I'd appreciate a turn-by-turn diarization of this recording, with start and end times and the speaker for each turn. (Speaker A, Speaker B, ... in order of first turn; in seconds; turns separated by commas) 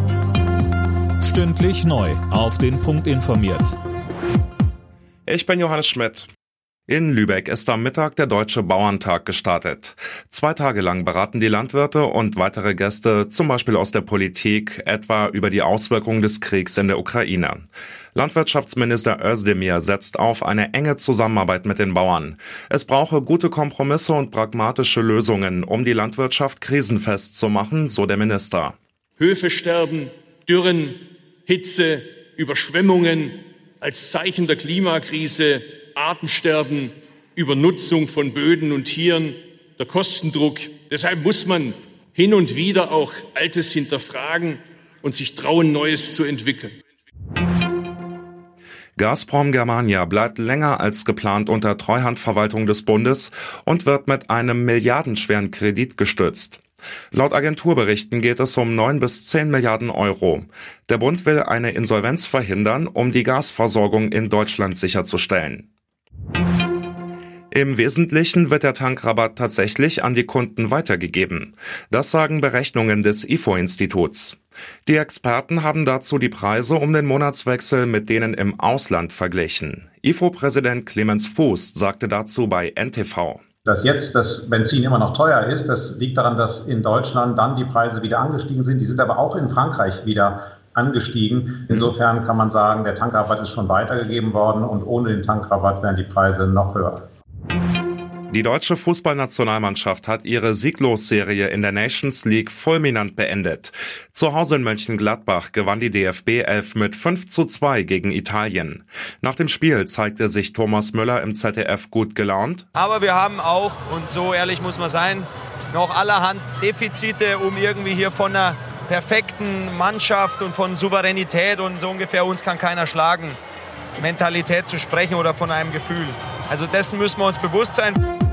Speaker A: 1.2-3.8, Speaker B: 5.2-6.3, Speaker B: 6.9-28.8, Speaker C: 29.2-46.7, Speaker B: 49.0-56.6, Speaker B: 57.1-65.7, Speaker B: 67.5-83.4, Speaker D: 83.6-97.0, Speaker B: 98.3-112.6, Speaker E: 112.8-123.4, Speaker E: 124.0-128.0